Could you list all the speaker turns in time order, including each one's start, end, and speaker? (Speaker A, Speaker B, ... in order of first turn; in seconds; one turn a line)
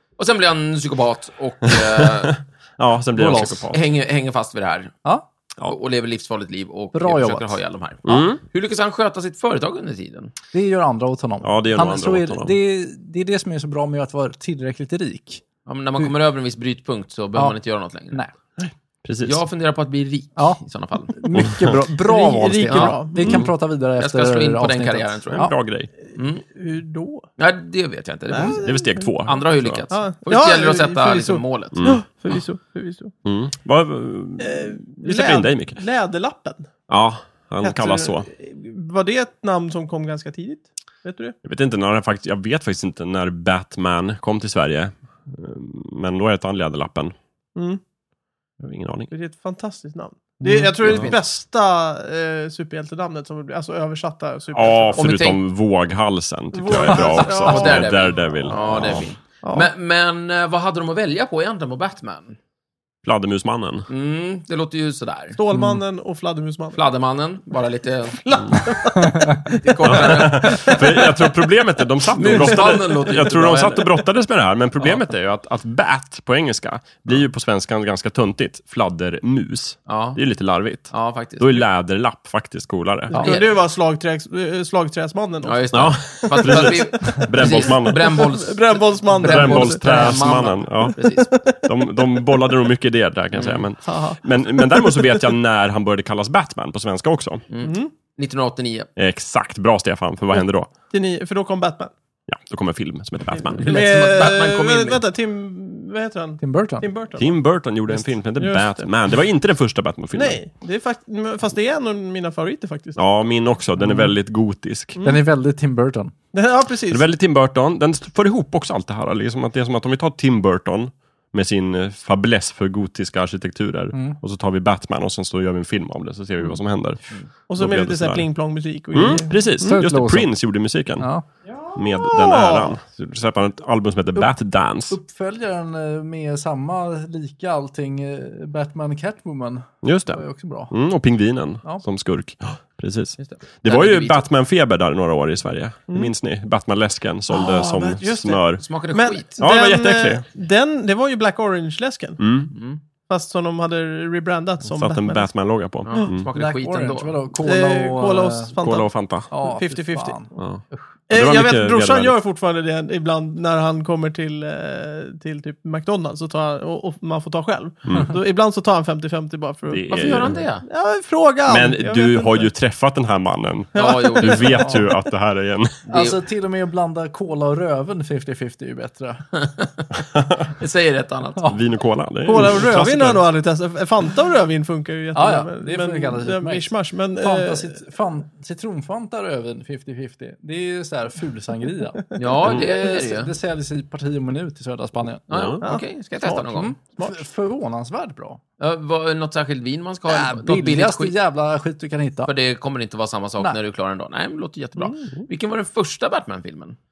Speaker A: 0.2-2.4
Speaker B: 1.6-3.8
Speaker C: 3.1-3.7
Speaker A: 3.3-4.9
Speaker A: 5.6-10.3
Speaker C: 6.9-7.6
Speaker B: 8.1-8.4
Speaker C: 10.5-15.4
Speaker B: 11.4-12.5
Speaker A: 15.7-18.2
Speaker B: 18.6-19.4
Speaker A: 19.2-21.3
Speaker C: 20.4-25.5
Speaker B: 21.4-21.8
Speaker D: 22.0-23.4
Speaker A: 22.7-22.9
Speaker B: 23.2-23.5
Speaker A: 24.0-25.5
Speaker B: 25.3-25.9
Speaker A: 26.1-26.4
Speaker D: 26.5-27.2
Speaker A: 27.4-31.9
Speaker D: 28.3-29.1
Speaker B: 28.6-29.8
Speaker D: 29.9-33.1
Speaker B: 31.7-32.0
Speaker B: 33.2-35.8
Speaker D: 34.4-36.7
Speaker B: 36.9-38.3
Speaker D: 37.6-41.3
Speaker B: 41.4-47.1
Speaker D: 47.5-47.8
Speaker B: 48.6-49.1
Speaker D: 49.1-55.1
Speaker C: 50.4-50.7
Speaker A: 50.8-51.2
Speaker B: 50.8-51.1
Speaker B: 54.5-59.1
Speaker A: 55.0-55.4
Speaker D: 56.5-58.2
Speaker A: 56.7-62.4
Speaker D: 59.4-59.7
Speaker B: 63.0-63.9
Speaker A: 63.9-65.4
Speaker D: 65.3-66.8
Speaker C: 65.5-65.8
Speaker A: 66.7-68.7
Speaker D: 68.1-71.1
Speaker A: 69.6-70.9
Speaker B: 69.8-83.3
Speaker A: 72.1-74.0
Speaker D: 72.3-72.8
Speaker A: 79.9-80.2
Speaker A: 80.9-81.7
Speaker D: 83.1-90.2
Speaker A: 83.1-83.5
Speaker A: 85.4-91.3
Speaker B: 85.7-88.3
Speaker B: 89.2-91.0
Speaker D: 91.0-91.7
Speaker B: 91.6-97.4
Speaker A: 93.3-93.6
Speaker D: 93.8-95.3
Speaker A: 97.5-98.9
Speaker D: 97.6-97.9
Speaker B: 99.0-100.7
Speaker D: 100.9-101.9
Speaker B: 102.3-103.8
Speaker D: 103.3-107.3
Speaker A: 103.6-105.0
Speaker C: 106.4-106.8
Speaker B: 107.2-110.4
Speaker D: 107.9-108.9
Speaker D: 110.1-113.0
Speaker B: 113.0-115.0
Speaker C: 113.8-114.1
Speaker C: 115.0-116.1
Speaker D: 116.3-117.1
Speaker B: 116.9-127.0
Speaker C: 123.9-124.2
Speaker D: 127.5-129.8
Speaker B: 127.5-128.2
Speaker B: 128.9-131.1
Speaker C: 129.6-130.3
Speaker C: 131.0-131.2
Speaker B: 131.7-135.0
Speaker D: 132.0-132.8
Speaker C: 134.9-140.7
Speaker B: 139.8-148.6
Speaker A: 143.2-144.2
Speaker D: 147.3-152.2
Speaker A: 148.6-149.4
Speaker B: 149.4-150.2
Speaker B: 152.2-152.5
Speaker A: 152.5-152.8
Speaker D: 153.1-155.3
Speaker B: 154.7-156.3
Speaker A: 155.8-157.2
Speaker C: 156.3-158.5
Speaker D: 157.4-160.2
Speaker B: 158.6-159.3
Speaker C: 159.3-160.8
Speaker B: 160.3-162.2
Speaker D: 161.1-172.5
Speaker B: 169.7-170.4
Speaker A: 169.9-170.6
Speaker B: 171.5-175.8
Speaker D: 173.7-174.7
Speaker A: 173.7-174.8
Speaker A: 175.9-176.2
Speaker C: 175.9-179.2
Speaker A: 179.4-179.7
Speaker A: 180.5-181.5
Speaker B: 181.5-183.2
Speaker D: 182.2-187.8
Speaker C: 185.1-195.2
Speaker A: 192.2-193.3
Speaker A: 195.3-196.7
Speaker B: 195.3-195.6
Speaker D: 195.6-197.2
Speaker C: 196.5-198.4
Speaker A: 198.6-201.1
Speaker C: 200.1-202.3
Speaker A: 202.2-206.8